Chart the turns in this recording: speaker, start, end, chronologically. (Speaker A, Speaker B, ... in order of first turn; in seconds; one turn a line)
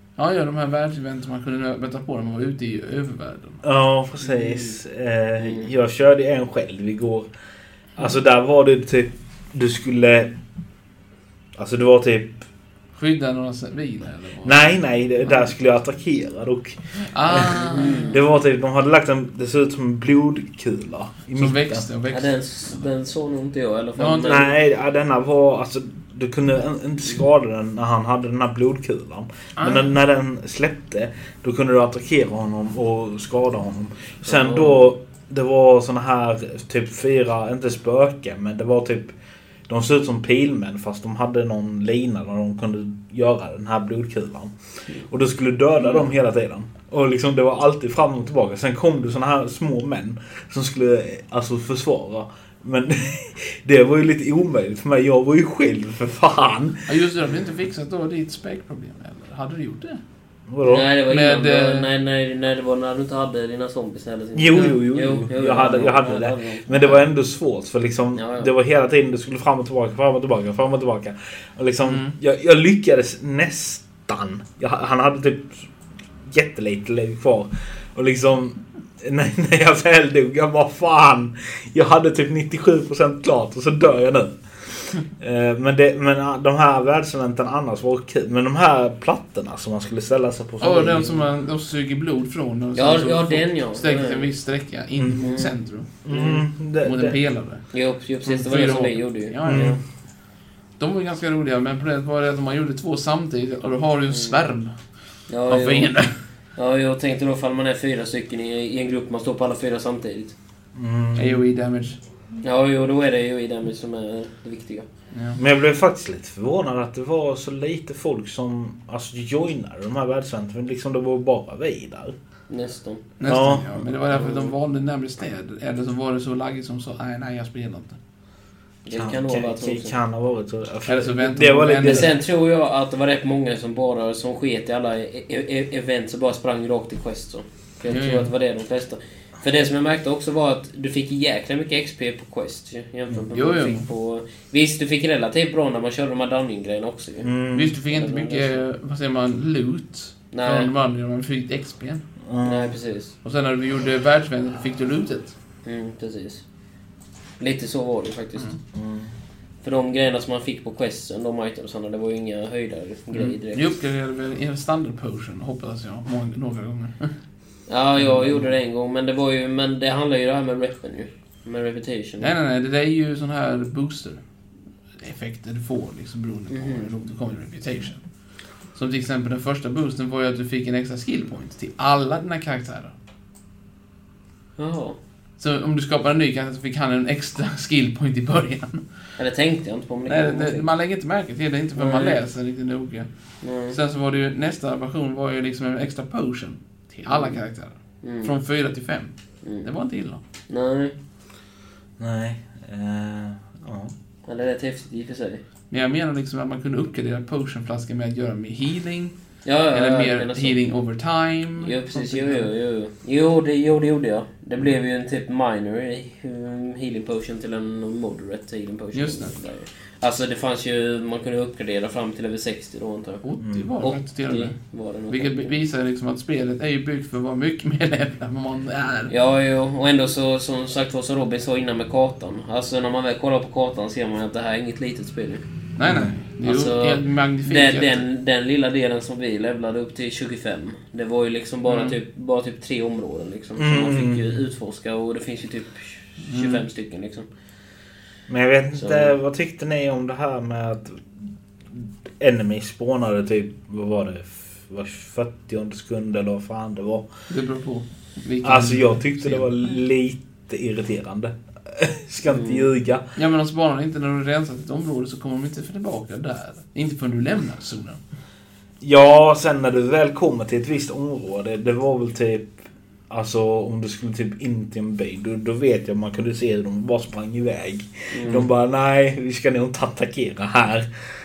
Speaker A: 0.2-3.6
Speaker B: 3.6-7.3
Speaker C: 4.3-4.7
Speaker C: 5.4-5.7
Speaker B: 8.0-10.3
Speaker B: 11.6-12.4
Speaker A: 12.9-15.5
Speaker B: 14.4-21.9
Speaker A: 17.1-18.1
Speaker C: 17.7-18.2
Speaker A: 21.3-22.8
Speaker C: 22.1-24.5
Speaker A: 24.0-24.4
Speaker B: 24.2-39.1
Speaker A: 29.6-29.9
Speaker C: 34.2-34.8
Speaker B: 39.7-44.5
Speaker B: 45.1-56.9
Speaker C: 45.8-46.0
Speaker A: 56.9-60.0
Speaker B: 60.5-60.9
Speaker C: 60.6-66.7
Speaker A: 61.1-61.9
Speaker B: 64.3-75.7
Speaker A: 64.5-64.8
Speaker A: 66.7-67.0
Speaker C: 68.1-68.5
Speaker A: 71.8-72.1
Speaker B: 76.3-91.3
Speaker A: 90.6-95.9
Speaker C: 92.7-94.3
Speaker B: 95.0-95.4
Speaker C: 95.2-95.5
Speaker B: 96.0-97.2
Speaker C: 96.1-96.4
Speaker A: 96.8-97.6
Speaker C: 97.7-99.8
Speaker A: 98.2-99.8
Speaker B: 99.4-99.8
Speaker A: 100.8-104.7
Speaker C: 104.1-104.4
Speaker C: 105.3-105.9
Speaker A: 105.4-106.1
Speaker C: 106.6-110.3
Speaker B: 110.7-111.4
Speaker A: 111.2-112.0
Speaker C: 112.4-114.8
Speaker A: 115.1-115.4
Speaker B: 115.4-122.1
Speaker C: 122.5-123.0
Speaker A: 123.2-128.0
Speaker B: 123.2-123.8
Speaker C: 124.1-124.5
Speaker C: 128.8-129.9
Speaker B: 128.9-132.1
Speaker A: 130.8-132.2
Speaker C: 131.8-147.3
Speaker A: 137.9-138.3
Speaker A: 143.3-143.8
Speaker B: 147.2-147.8
Speaker A: 147.5-152.0
Speaker C: 147.9-148.6
Speaker C: 150.3-150.7
Speaker B: 152.3-152.8
Speaker C: 152.4-153.1
Speaker A: 153.2-155.3
Speaker C: 155.6-156.4
Speaker C: 157.4-158.5
Speaker B: 158.7-159.1
Speaker C: 159.6-163.7
Speaker A: 163.1-167.1
Speaker C: 167.7-172.3
Speaker A: 168.0-168.5
Speaker A: 172.2-174.2
Speaker A: 175.0-178.0
Speaker C: 176.5-176.9
Speaker A: 178.7-182.9
Speaker C: 184.6-185.0
Speaker A: 185.4-188.8
Speaker C: 189.2-190.7
Speaker A: 190.1-193.1
Speaker C: 191.8-192.2
Speaker C: 193.4-193.8
Speaker A: 193.7-200.2
Speaker C: 197.1-197.4
Speaker C: 198.0-198.3
Speaker C: 200.5-200.9
Speaker B: 202.0-203.9
Speaker C: 204.3-205.4
Speaker A: 205.7-209.1
Speaker C: 209.4-210.6
Speaker A: 209.7-212.5
Speaker C: 211.6-223.2
Speaker A: 218.9-219.3
Speaker A: 223.2-224.6
Speaker B: 223.4-223.7
Speaker C: 223.8-225.5
Speaker A: 225.1-229.1
Speaker C: 229.1-235.4
Speaker A: 235.8-238.1
Speaker B: 235.8-236.1
Speaker C: 236.4-247.2
Speaker A: 241.7-242.0
Speaker B: 243.6-244.2
Speaker A: 246.2-246.6
Speaker B: 248.3-251.0
Speaker C: 248.7-249.1
Speaker B: 251.7-257.1
Speaker A: 257.3-259.7
Speaker B: 258.4-263.0
Speaker C: 262.3-262.7
Speaker A: 263.1-268.0
Speaker B: 268.8-272.5
Speaker B: 273.1-280.9
Speaker C: 278.1-278.5